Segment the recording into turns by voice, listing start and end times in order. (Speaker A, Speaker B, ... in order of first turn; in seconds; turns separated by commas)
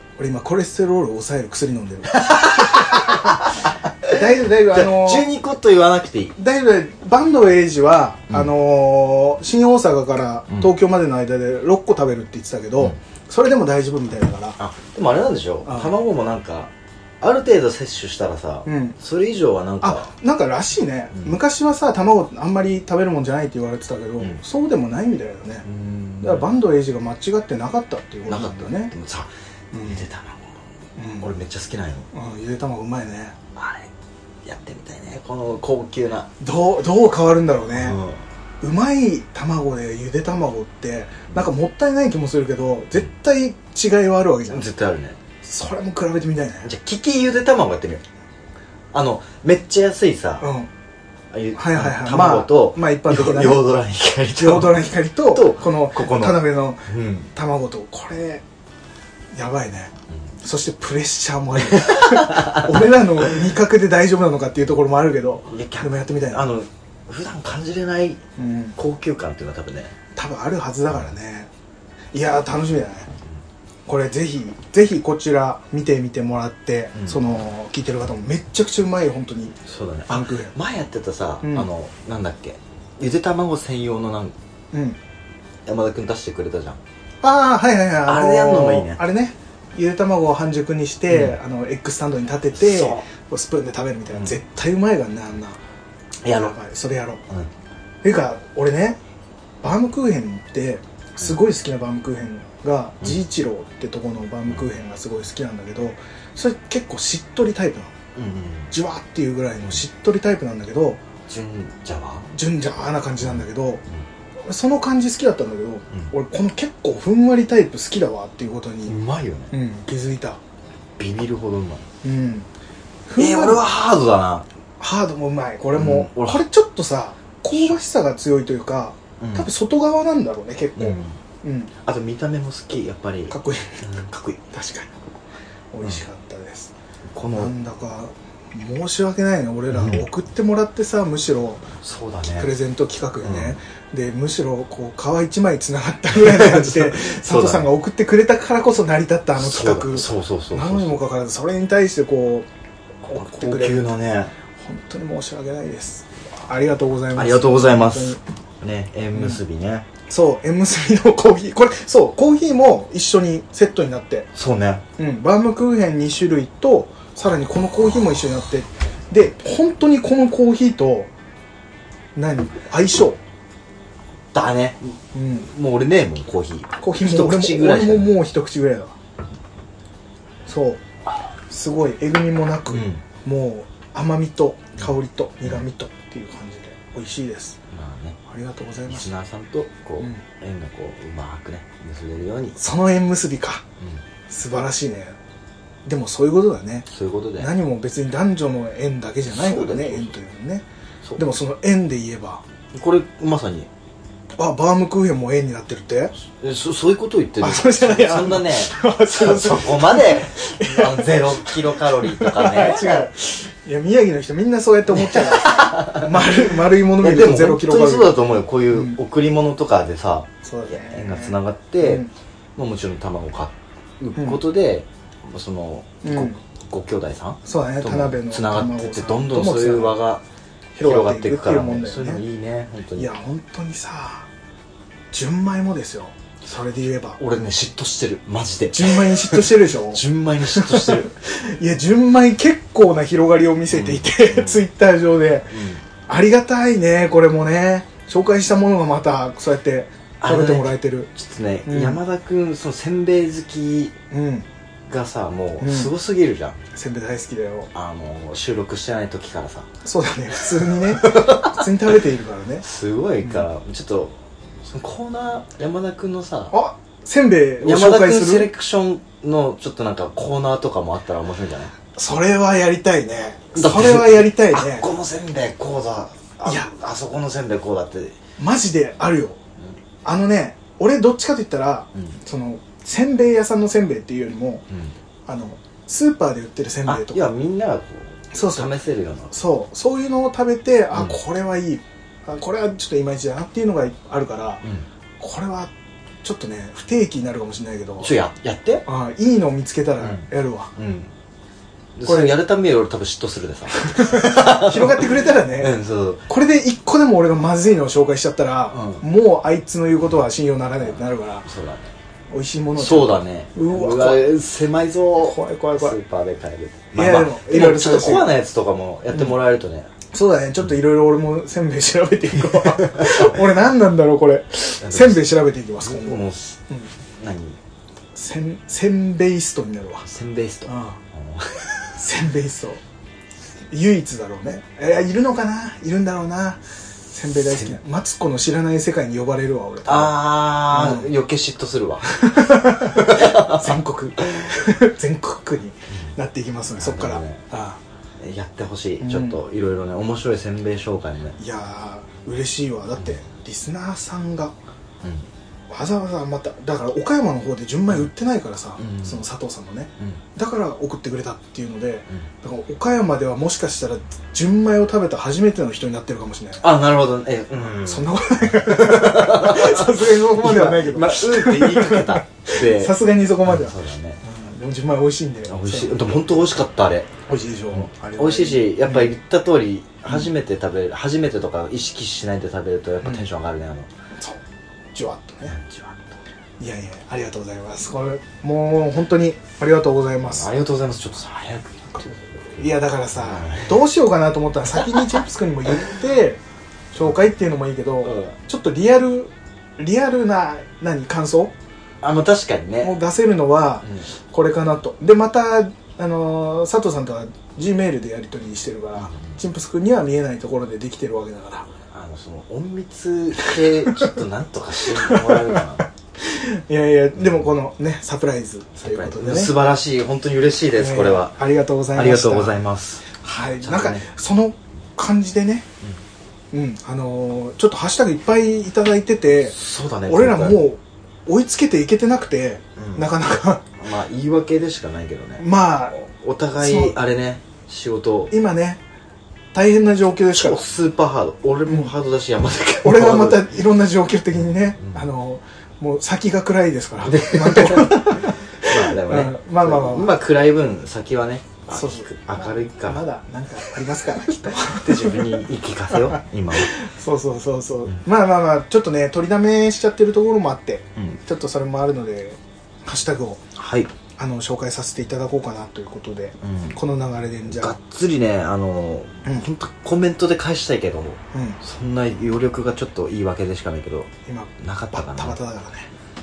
Speaker A: 0.2-3.4, Speaker B: 2.1-6.3, Speaker A: 4.0-5.3, Speaker A: 6.4-14.6, Speaker B: 14.6-20.1, Speaker A: 15.6-15.9, Speaker A: 18.6-19.0, Speaker A: 19.8-25.7, Speaker B: 25.6-26.5, Speaker A: 26.2-28.9, Speaker B: 28.3-30.6, Speaker A: 29.7-30.0, Speaker A: 31.0-31.3, Speaker B: 31.2-32.1, Speaker A: 32.1-33.4, Speaker B: 33.5-33.9, Speaker B: 34.4-36.3, Speaker A: 36.4-38.0, Speaker B: 37.7-38.2, Speaker A: 38.6-44.7, Speaker B: 44.5-45.2, Speaker A: 45.4-46.7, Speaker B: 46.6-48.0, Speaker B: 48.9-50.4, Speaker A: 50.4-50.7, Speaker B: 51.3-57.3, Speaker A: 51.5-53.6, Speaker A: 54.4-58.4, Speaker A: 59.3-66.5, Speaker B: 61.7-62.8, Speaker B: 65.5-68.2, Speaker A: 68.4-68.8, Speaker B: 68.8-69.9, Speaker A: 70.2-71.5, Speaker A: 72.1-73.1, Speaker A: 73.9-79.6, Speaker B: 79.7-84.3, Speaker A: 80.1-80.5, Speaker A: 81.4-81.7, Speaker A: 84.7-85.0, Speaker B: 85.7-86.8, Speaker A: 87.2-95.6, Speaker B: 88.0-89.0, Speaker B: 91.1-91.4, Speaker B: 92.5-93.0, Speaker B: 96.2-96.6, Speaker A: 96.3-97.2, Speaker A: 98.0-99.0, Speaker A: 99.6-107.9, Speaker B: 108.2-108.7, Speaker A: 108.7-111.0, Speaker B: 111.3-112.3, Speaker A: 112.3-113.8, Speaker A: 114.5-119.0, Speaker B: 118.8-119.5, Speaker A: 119.5-120.4, Speaker B: 121.0-121.8, Speaker A: 122.0-122.5, Speaker A: 123.1-123.7, Speaker B: 123.2-124.5, Speaker A: 124.8-131.7, Speaker B: 125.7-126.4, Speaker B: 129.2-129.5, Speaker B: 130.8-131.2, Speaker B: 131.8-134.4, Speaker A: 133.3-133.8, Speaker A: 134.5-134.9, Speaker A: 135.7-136.7, Speaker B: 137.1-137.5, Speaker A: 137.3-141.7, Speaker B: 139.7-140.0, Speaker B: 141.8-142.5, Speaker A: 142.4-152.5, Speaker B: 143.2-143.6, Speaker B: 146.1-147.7, Speaker B: 149.4-151.0, Speaker A: 153.1-153.9, Speaker B: 153.1-154.3, Speaker A: 154.6-158.2, Speaker B: 157.1-159.8, Speaker A: 160.1-164.3, Speaker B: 164.3-164.8, Speaker A: 165.0-171.1, Speaker A: 172.1-173.2, Speaker B: 174.3-178.2, Speaker A: 175.1-175.5, Speaker A: 176.8-178.9, Speaker A: 180.4-180.8, Speaker A: 181.5-187.6, Speaker B: 182.7-183.0, Speaker B: 187.7-188.2, Speaker A: 188.2-189.1, Speaker B: 188.9-192.6, Speaker A: 192.6-193.6, Speaker A: 194.3-195.2, Speaker A: 195.8-196.9, Speaker B: 196.9-197.5, Speaker A: 197.4-200.6, Speaker B: 199.3-200.1, Speaker A: 201.2-202.4, Speaker B: 202.7-203.7, Speaker A: 204.4-206.1, Speaker B: 206.3-213.1, Speaker A: 207.4-218.2, Speaker B: 214.9-230.2, Speaker A: 218.7-219.0, Speaker A: 220.4-222.1, Speaker A: 224.2-224.4, Speaker A: 226.0-226.4, Speaker A: 227.4-229.9, Speaker A: 230.7-232.2, Speaker B: 230.8-233.1, Speaker A: 232.9-234.3, Speaker A: 235.1-237.2, Speaker B: 237.2-241.1, Speaker A: 238.7-251.1, Speaker B: 243.7-244.6, Speaker B: 245.5-245.8, Speaker B: 250.2-253.9, Speaker A: 251.7-252.0, Speaker A: 254.1-254.4, Speaker B: 254.9-256.6, Speaker A: 255.6-255.9, Speaker A: 256.7-257.7, Speaker B: 257.7-259.7, Speaker A: 259.8-262.6, Speaker B: 260.8-261.7, Speaker B: 262.6-266.5, Speaker A: 266.5-268.5, Speaker B: 267.6-271.7, Speaker A: 271.9-274.9, Speaker B: 273.5-278.2, Speaker A: 276.4-276.7, Speaker A: 278.4-279.4, Speaker A: 280.0-284.6, Speaker A: 285.3-287.2, Speaker B: 286.8-289.3, Speaker A: 288.3-288.7, Speaker A: 289.3-294.6, Speaker B: 290.9-291.2, Speaker A: 295.2-295.7, Speaker A: 296.2-298.1, Speaker B: 298.0-298.8, Speaker A: 298.9-300.7, Speaker B: 300.8-301.1, Speaker B: 301.9-306.2, Speaker A: 302.1-302.4, Speaker A: 303.8-305.7, Speaker A: 306.3-311.5, Speaker B: 308.7-309.0, Speaker B: 310.8-311.9, Speaker A: 312.3-314.3, Speaker B: 312.8-319.9, Speaker A: 315.2-316.0, Speaker A: 316.9-318.3, Speaker A: 320.1-326.9, Speaker B: 322.6-323.3, Speaker B: 324.8-326.6, Speaker B: 327.2-327.6, Speaker A: 328.1-330.1, Speaker B: 330.0-331.7, Speaker A: 330.6-331.0, Speaker A: 331.9-332.8, Speaker A: 333.7-341.1, Speaker B: 337.3-337.8, Speaker B: 339.9-343.8, Speaker A: 342.1-347.8, Speaker B: 346.8-347.4, Speaker B: 348.2-351.4, Speaker A: 349.0-349.4, Speaker A: 351.4-354.5, Speaker A: 355.7-366.7, Speaker B: 358.8-359.2, Speaker B: 366.6-374.2, Speaker A: 367.8-376.2, Speaker B: 375.5-377.1, Speaker A: 377.3-379.1, Speaker B: 377.7-383.9, Speaker A: 383.0-383.3, Speaker A: 384.9-385.6, Speaker B: 385.5-386.1, Speaker A: 386.6-390.5, Speaker B: 390.2-393.8, Speaker A: 391.9-396.4, Speaker A: 396.9-401.5, Speaker B: 398.0-398.3, Speaker B: 402.0-402.9, Speaker A: 402.8-411.7, Speaker B: 409.0-409.4, Speaker B: 411.9-415.9, Speaker A: 413.4-414.1, Speaker A: 414.9-419.5, Speaker B: 418.8-421.4, Speaker A: 420.7-422.6, Speaker B: 421.9-423.1, Speaker A: 423.1-425.6, Speaker B: 423.6-424.1, Speaker A: 426.5-429.6, Speaker B: 429.5-430.6, Speaker A: 430.1-433.6, Speaker B: 432.8-433.1, Speaker B: 433.8-438.3, Speaker A: 435.4-436.0, Speaker A: 436.6-436.9, Speaker A: 438.3-438.8, Speaker A: 439.5-440.6, Speaker B: 440.3-443.6, Speaker A: 441.6-441.9, Speaker A: 442.8-450.2, Speaker B: 447.0-453.0, Speaker A: 451.7-455.4, Speaker B: 454.4-456.7, Speaker A: 455.9-463.4, Speaker B: 463.5-463.9, Speaker A: 464.2-467.8, Speaker B: 466.4-466.8, Speaker B: 467.5-475.4, Speaker A: 471.3-471.6, Speaker A: 474.2-475.9